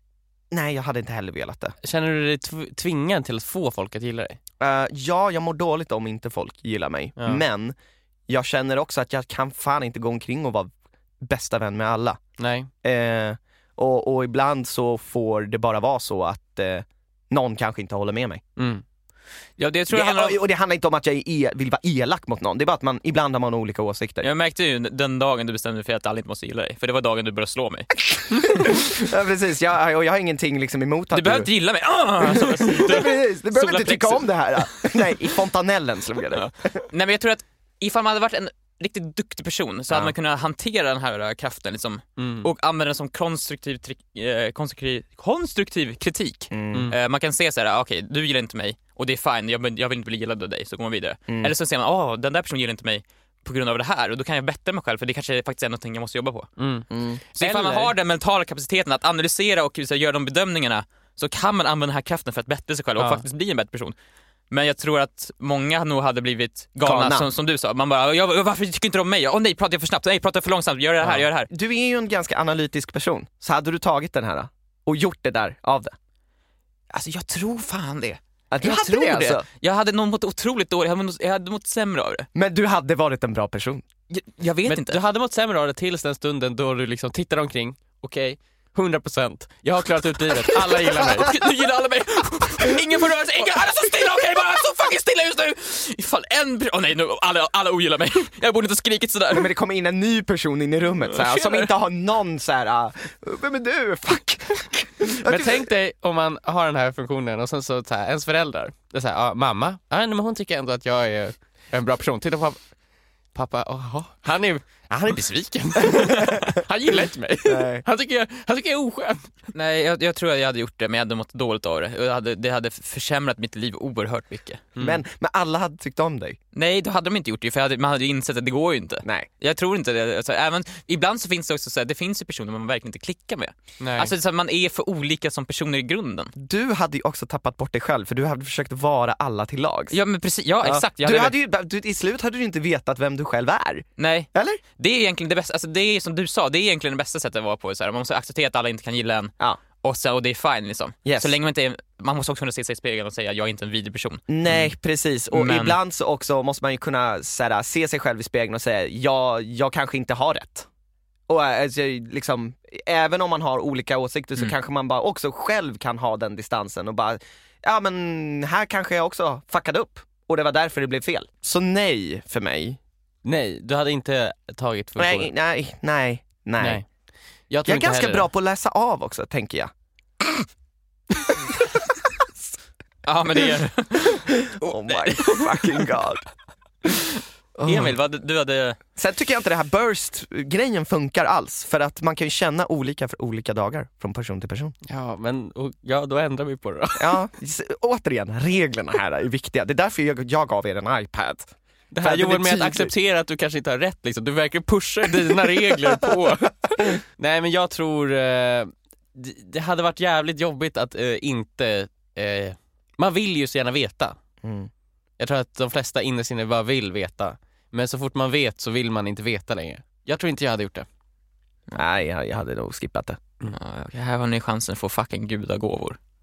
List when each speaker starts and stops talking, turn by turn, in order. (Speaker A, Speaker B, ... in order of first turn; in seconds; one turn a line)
Speaker A: 0.5-1.8
Speaker B: 1.8-4.4
Speaker A: 4.6-7.8
Speaker B: 7.2-7.4
Speaker A: 8.3-12.2
Speaker B: 12.4-12.7
Speaker A: 12.8-18.4
Speaker B: 18.6-18.8
Speaker C: 19.6-20.4
Speaker A: 19.9-24.3
Speaker C: 24.2-28.5
Speaker A: 28.1-31.5
Speaker C: 31.1-35.2
Speaker A: 32.2-36.5
Speaker C: 36.3-56.5
Speaker B: 42.2-42.5
Speaker A: 46.5-46.9
Speaker B: 46.7-47.0
Speaker B: 56.6-57.9
Speaker A: 56.9-57.2
Speaker C: 57.4-64.0
Speaker B: 63.0-63.2
Speaker C: 64.5-71.5
Speaker A: 66.8-67.3
Speaker A: 71.1-76.0
Speaker C: 76.9-82.3
Speaker A: 78.5-79.4
Speaker A: 82.3-83.8
Speaker C: 84.1-85.0
Speaker B: 84.7-91.3
Speaker C: 90.8-99.5
Speaker A: 99.3-105.7
Speaker C: 101.0-101.7
Speaker B: 105.2-112.6
Speaker B: 113.3-119.3
Speaker A: 116.0-116.4
Speaker A: 117.5-117.8
Speaker C: 119.5-124.7
Speaker B: 124.8-125.0
Speaker A: 124.8-126.4
Speaker C: 126.5-136.3
Speaker B: 133.8-134.1
Speaker A: 136.4-139.9
Speaker C: 139.9-141.3
Speaker A: 140.6-144.6
Speaker C: 144.0-154.7
Speaker A: 151.1-151.3
Speaker A: 154.3-160.7
Speaker C: 155.3-155.8
Speaker A: 161.3-172.8
Speaker B: 173.2-175.3
Speaker A: 175.0-176.8
Speaker B: 176.6-176.9
Speaker B: 177.5-178.3
Speaker A: 177.7-180.5
Speaker A: 181.2-181.8
Speaker C: 183.1-185.9
Speaker A: 184.3-186.2
Speaker A: 187.6-187.9
Speaker C: 187.6-188.8
Speaker A: 189.0-194.7
Speaker B: 194.9-197.2
Speaker A: 197.0-202.9
Speaker B: 201.9-214.2
Speaker A: 205.3-206.1
Speaker A: 214.4-214.7
Speaker B: 215.2-220.9
Speaker A: 221.7-223.2
Speaker C: 223.5-226.0